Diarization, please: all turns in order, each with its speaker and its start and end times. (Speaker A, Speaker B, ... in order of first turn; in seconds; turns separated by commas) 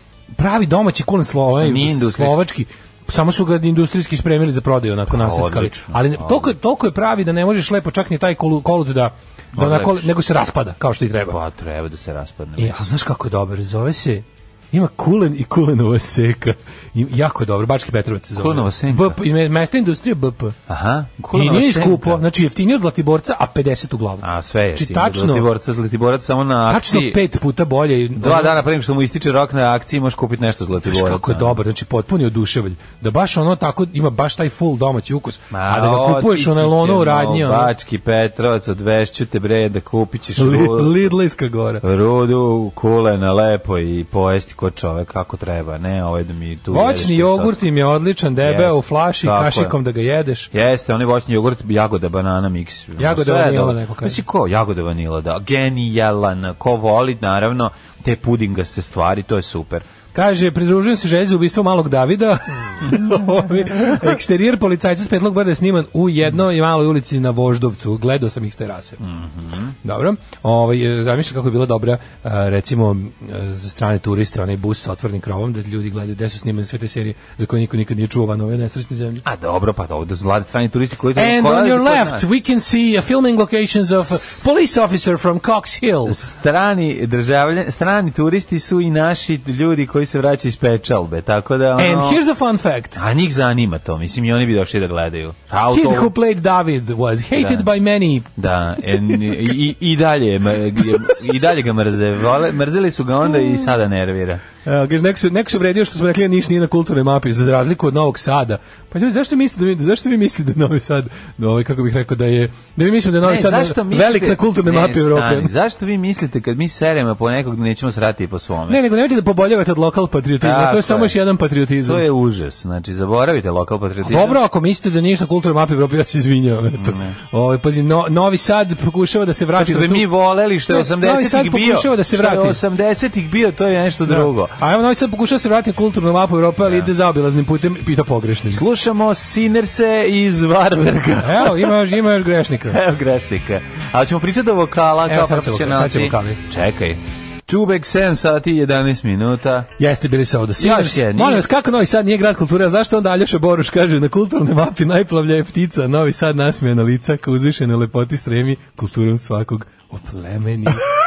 Speaker A: 0.4-11.4, Speaker B: 1.6-2.4, Speaker B: 5.1-6.5, Speaker B: 9.6-10.1, Speaker B: 11.3-12.9, Speaker A: 12.6-20.6, Speaker B: 18.4-19.2, Speaker B: 20.7-22.2, Speaker A: 21.3-25.5, Speaker B: 24.2-27.2, Speaker A: 26.7-28.6, Speaker B: 28.2-31.6, Speaker A: 30.9-37.7, Speaker B: 35.5-41.1, Speaker A: 40.4-41.8, Speaker B: 41.8-47.6, Speaker A: 46.7-50.5, Speaker B: 48.4-49.8, Speaker B: 50.5-59.9, Speaker A: 53.0-54.2, Speaker A: 60.1-69.0, Speaker B: 69.0-69.8, Speaker A: 69.8-79.2, Speaker B: 79.2-82.2, Speaker A: 81.2-86.2, Speaker B: 86.1-92.2, Speaker A: 91.8-93.0, Speaker B: 93.0-96.1, Speaker A: 95.7-98.3, Speaker B: 97.3-97.7, Speaker B: 98.4-104.4, Speaker A: 98.9-99.4, Speaker A: 104.7-115.5, Speaker B: 113.2-118.8, Speaker A: 118.7-122.0, Speaker B: 120.4-121.2, Speaker B: 121.8-124.4, Speaker A: 124.0-130.1, Speaker B: 126.8-127.2, Speaker B: 129.6-134.6, Speaker A: 130.7-132.6, Speaker A: 134.1-138.6, Speaker B: 136.6-136.9, Speaker B: 138.5-141.8, Speaker A: 141.2-142.8, Speaker B: 142.7-149.7, Speaker A: 145.1-146.4, Speaker A: 149.8-160.9, Speaker B: 150.6-151.5